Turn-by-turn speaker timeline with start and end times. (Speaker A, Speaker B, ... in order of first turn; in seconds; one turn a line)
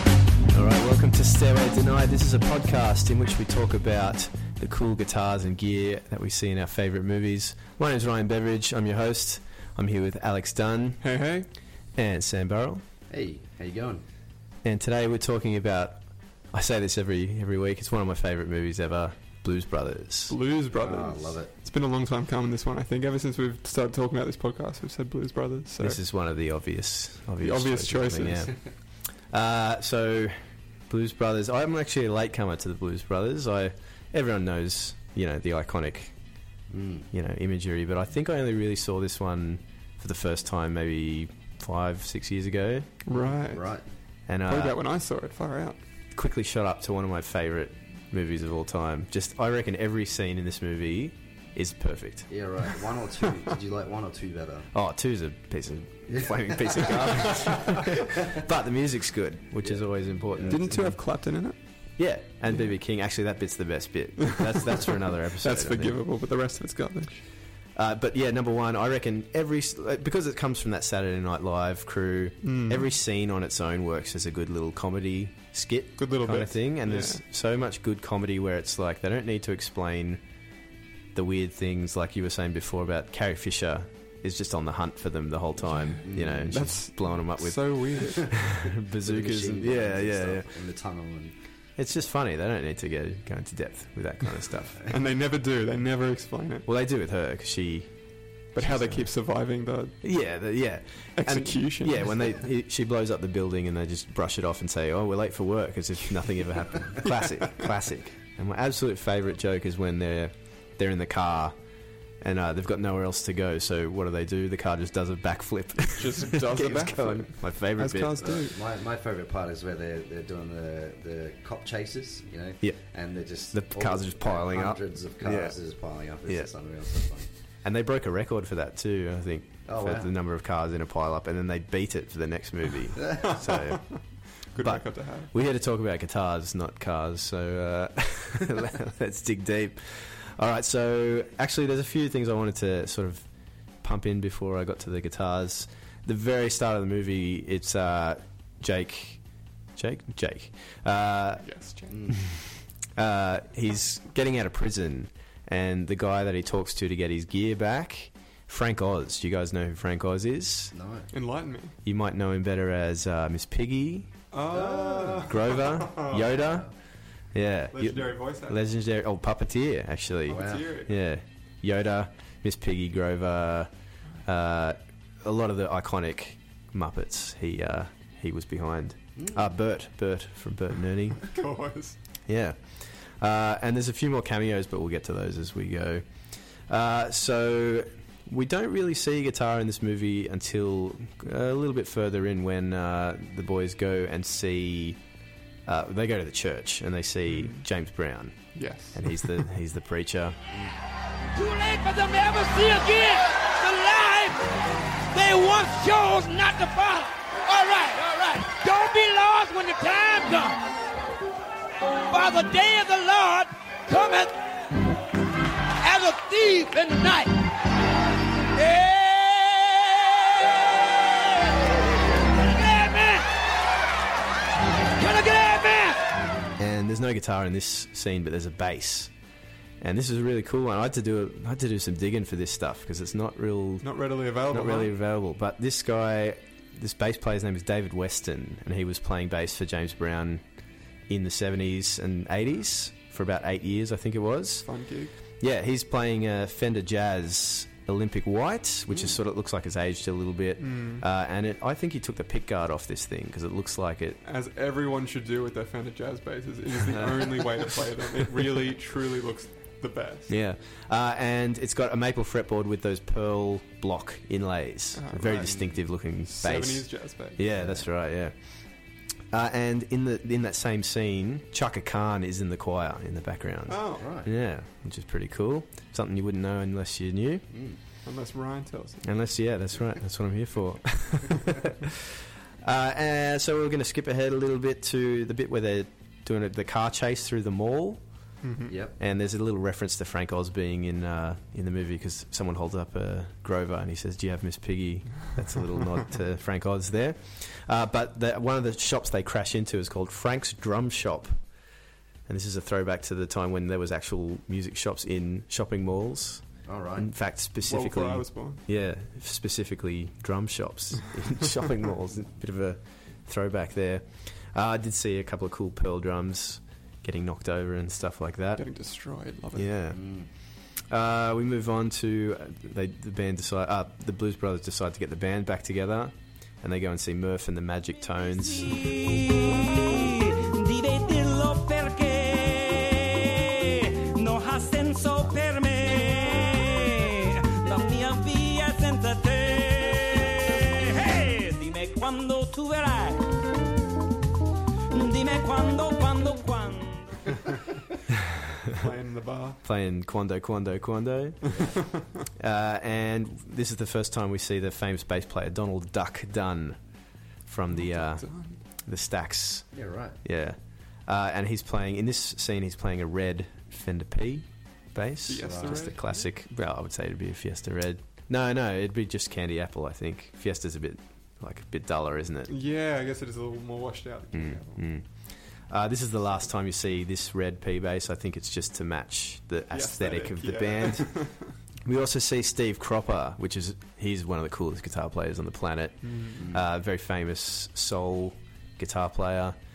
Speaker A: 0.5-11.0
Speaker B: 11.0-11.5
Speaker A: 12.0-12.8
Speaker C: 13.1-14.0
Speaker A: 14.6-16.0
Speaker A: 16.5-20.4
Speaker B: 20.3-26.0
Speaker C: 20.8-21.5
Speaker A: 25.8-28.5
Speaker B: 27.4-28.6
Speaker A: 29.3-30.4
Speaker A: 30.9-36.1
Speaker C: 36.7-37.1
Speaker A: 37.1-42.9
Speaker B: 43.1-43.7
Speaker C: 43.1-43.8
Speaker A: 44.3-44.8
Speaker B: 44.5-45.8
Speaker A: 46.1-52.4
Speaker C: 52.3-54.7
Speaker A: 54.7-61.0
Speaker C: 56.1-57.0
Speaker C: 59.6-60.8
Speaker B: 60.5-61.6
Speaker A: 62.0-66.0
Speaker B: 64.2-67.2
Speaker A: 67.8-80.2
Speaker B: 72.4-72.9
Speaker B: 76.0-77.2
Speaker A: 81.2-90.5
Speaker C: 86.0-86.6
Speaker B: 86.5-88.3
Speaker C: 89.0-91.3
Speaker A: 91.8-94.8
Speaker B: 94.9-96.7
Speaker A: 96.7-97.9
Speaker B: 98.5-100.0
Speaker A: 98.6-99.1
Speaker A: 100.0-111.5
Speaker B: 101.2-102.3
Speaker B: 107.1-107.5
Speaker A: 112.2-118.4
Speaker B: 115.9-118.5
Speaker C: 118.2-127.3
Speaker A: 123.5-125.5
Speaker A: 127.6-133.9
Speaker C: 129.7-130.1
Speaker B: 133.2-134.0
Speaker B: 134.5-135.3
Speaker A: 134.6-143.2
Speaker A: 143.8-149.2
Speaker A: 149.8-151.5
Speaker B: 151.4-152.0
Speaker C: 151.9-152.2
Speaker A: 153.0-160.8
Speaker C: 160.7-161.1
Speaker B: 161.1-161.8
Speaker A: 161.8-164.1
Speaker B: 164.3-166.4
Speaker C: 164.5-165.6
Speaker A: 165.2-166.7
Speaker A: 167.3-173.7
Speaker B: 167.7-168.6
Speaker B: 170.3-170.9
Speaker C: 170.3-170.7
Speaker A: 174.2-181.3
Speaker C: 179.2-179.5
Speaker B: 181.2-182.0
Speaker A: 182.3-186.0
Speaker A: 186.7-195.0
Speaker A: 195.7-200.4
Speaker B: 197.3-197.6
Speaker B: 198.6-199.3
Speaker D: 201.3-204.5
Speaker D: 205.1-210.6
Speaker D: 212.1-214.4
Speaker D: 215.8-217.4
Speaker D: 218.6-223.3
Speaker D: 224.9-226.0
Speaker A: 226.6-229.1
Speaker A: 229.8-233.9
Speaker B: 233.8-234.9
Speaker A: 234.5-240.4
Speaker A: 241.1-244.7
Speaker B: 244.7-245.1
Speaker A: 245.4-254.2
Speaker C: 248.9-249.2
Speaker B: 250.6-251.1
Speaker B: 254.2-260.3
Speaker A: 256.9-257.2
Speaker A: 260.3-268.3
Speaker B: 264.9-265.6
Speaker C: 265.3-265.8
Speaker B: 266.3-267.4
Speaker C: 267.4-267.9
Speaker A: 269.3-277.4
Speaker B: 273.7-274.1
Speaker C: 274.0-274.3
Speaker C: 277.5-277.8
Speaker B: 278.1-279.1
Speaker A: 279.0-288.0
Speaker B: 288.4-288.7
Speaker C: 288.7-289.0
Speaker A: 289.0-301.4
Speaker A: 302.3-306.4
Speaker C: 306.7-307.1
Speaker A: 307.0-318.6
Speaker B: 307.6-308.6
Speaker B: 318.6-319.7
Speaker A: 319.5-320.0
Speaker C: 319.9-320.3
Speaker A: 320.9-328.9
Speaker E: 328.7-343.3
Speaker E: 344.9-347.2
Speaker B: 348.7-349.6
Speaker A: 349.6-351.5
Speaker A: 352.4-356.8
Speaker A: 357.5-358.3
Speaker B: 357.7-358.6
Speaker A: 358.9-359.7
Speaker C: 359.7-360.2
Speaker A: 360.2-372.5
Speaker B: 365.3-366.3
Speaker C: 365.4-365.9
Speaker B: 372.5-374.8
Speaker A: 374.3-375.1
Speaker A: 375.7-381.1
Speaker B: 379.7-381.4
Speaker A: 381.9-389.6
Speaker B: 386.0-386.4
Speaker C: 386.4-386.7